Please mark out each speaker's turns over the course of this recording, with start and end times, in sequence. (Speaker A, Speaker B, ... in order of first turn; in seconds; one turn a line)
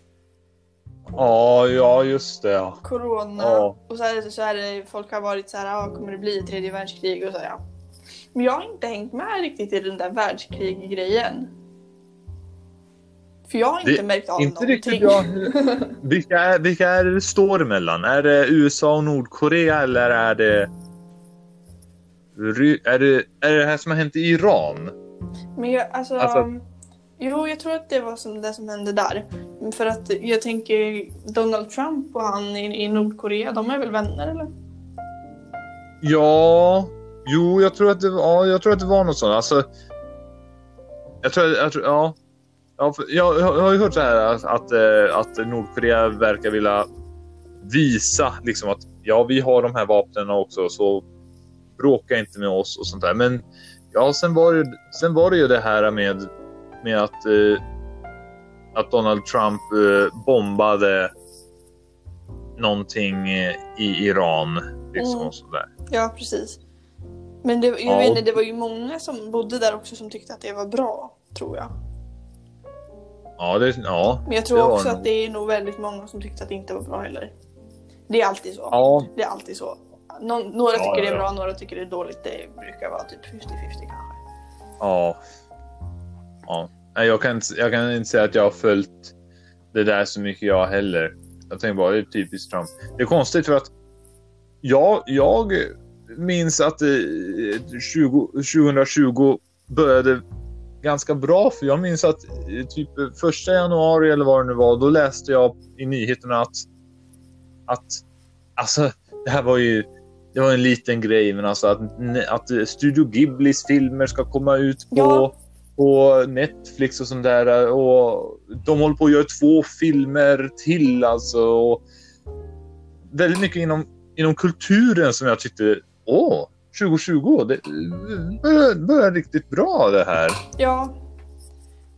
Speaker A: 1.1-2.8
Speaker B: 2.8-7.6
Speaker A: 3.4-3.7
Speaker B: 8.3-11.5
Speaker B: 13.5-15.9
Speaker A: 13.8-20.7
Speaker A: 22.3-24.9
Speaker B: 25.6-26.6
Speaker A: 26.2-26.5
Speaker B: 27.2-34.5
Speaker A: 36.0-39.6
Speaker A: 41.2-42.1
Speaker A: 42.8-46.9
Speaker A: 47.6-51.0
Speaker A: 51.8-56.3
Speaker A: 56.8-57.6
Speaker A: 58.7-61.1
Speaker A: 62.6-65.7
Speaker B: 65.0-65.3
Speaker B: 65.9-66.6
Speaker B: 67.4-71.7
Speaker A: 67.9-68.4
Speaker A: 73.4-75.1
Speaker B: 74.2-77.3
Speaker B: 78.1-84.2
Speaker A: 78.7-79.1
Speaker A: 80.7-81.2
Speaker A: 84.8-85.2
Speaker A: 86.5-89.1
Speaker A: 89.7-93.7
Speaker A: 94.6-100.2
Speaker A: 100.8-106.7
Speaker A: 107.7-108.0
Speaker A: 108.6-121.8
Speaker B: 114.9-115.3
Speaker A: 123.1-130.4
Speaker B: 130.6-130.9